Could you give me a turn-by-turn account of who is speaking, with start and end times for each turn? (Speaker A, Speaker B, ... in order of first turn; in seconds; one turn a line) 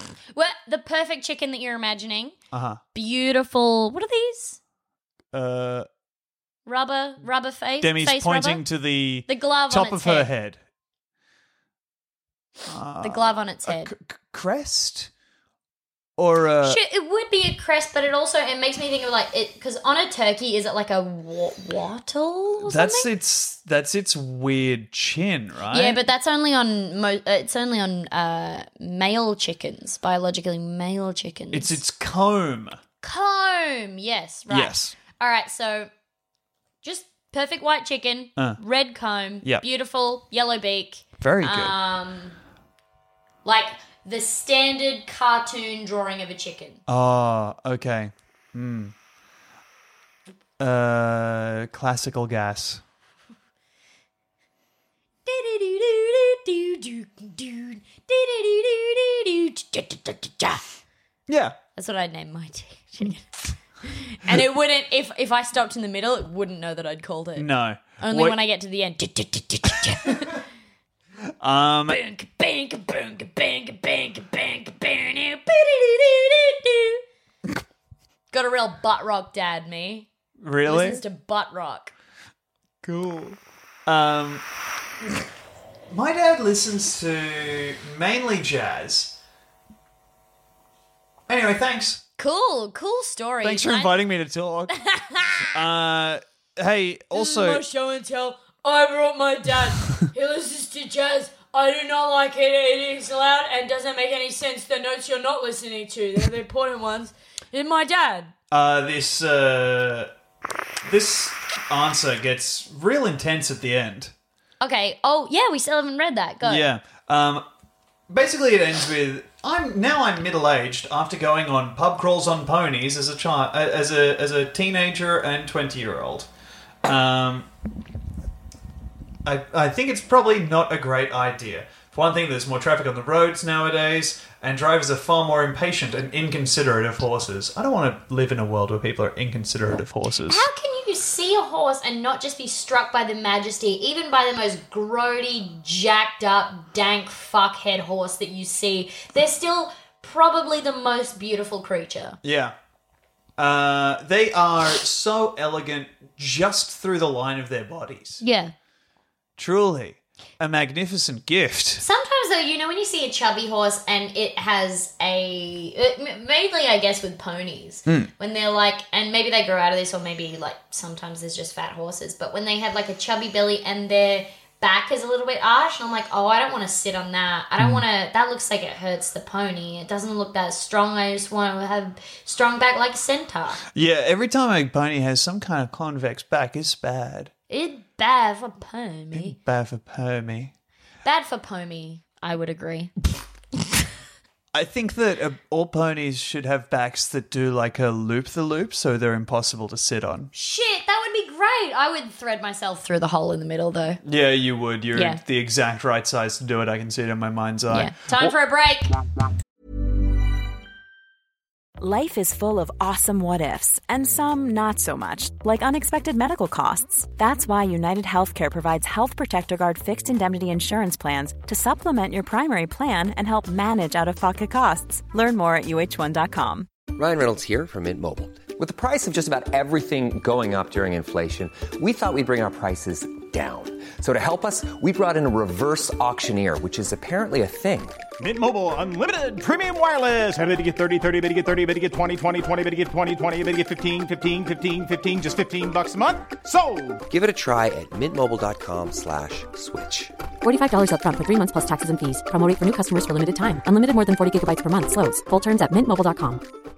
Speaker A: 0.3-2.4
Speaker B: 2.5-2.8
Speaker A: 2.9-4.6
Speaker B: 5.3-5.9
Speaker A: 6.7-8.6
Speaker B: 7.8-10.6
Speaker A: 9.3-10.3
Speaker B: 12.7-15.1
Speaker A: 13.0-13.9
Speaker B: 16.2-16.8
Speaker A: 16.6-23.1
Speaker B: 22.6-26.0
Speaker A: 25.7-31.8
Speaker B: 31.5-32.8
Speaker A: 33.0-35.9
Speaker B: 34.5-34.9
Speaker A: 36.8-42.4
Speaker B: 41.2-41.8
Speaker A: 43.5-46.8
Speaker B: 46.9-49.0
Speaker B: 50.6-52.8
Speaker A: 55.3-60.6
Speaker B: 61.3-61.6
Speaker A: 61.8-63.3
Speaker A: 63.8-70.4
Speaker B: 67.4-68.4
Speaker B: 71.4-72.0
Speaker A: 71.9-77.0
Speaker A: 78.3-80.1
Speaker B: 80.4-81.0
Speaker A: 80.7-81.9
Speaker B: 82.8-84.5
Speaker B: 85.9-89.2
Speaker B: 91.3-92.0
Speaker A: 92.2-94.0
Speaker B: 93.4-94.8
Speaker A: 94.7-95.6
Speaker B: 95.5-97.6
Speaker A: 97.2-108.3
Speaker B: 108.5-110.1
Speaker B: 110.8-114.1
Speaker A: 114.6-116.7
Speaker B: 116.4-117.5
Speaker B: 118.1-126.3
Speaker B: 126.8-127.5
Speaker B: 129.2-140.5
Speaker A: 140.3-152.2
Speaker B: 152.2-152.6
Speaker B: 153.4-158.2
Speaker A: 158.2-158.5
Speaker B: 159.4-161.8
Speaker A: 161.8-183.6
Speaker B: 177.6-177.8
Speaker B: 183.7-187.3
Speaker A: 187.5-189.4
Speaker B: 189.1-190.5
Speaker A: 191.1-192.9
Speaker B: 194.5-200.3
Speaker A: 200.3-204.0
Speaker B: 204.0-208.3
Speaker A: 204.9-205.2
Speaker A: 207.7-208.9
Speaker C: 211.8-226.7
Speaker D: 226.9-238.0
Speaker E: 238.2-247.0
Speaker D: 247.1-250.1
Speaker F: 250.4-256.4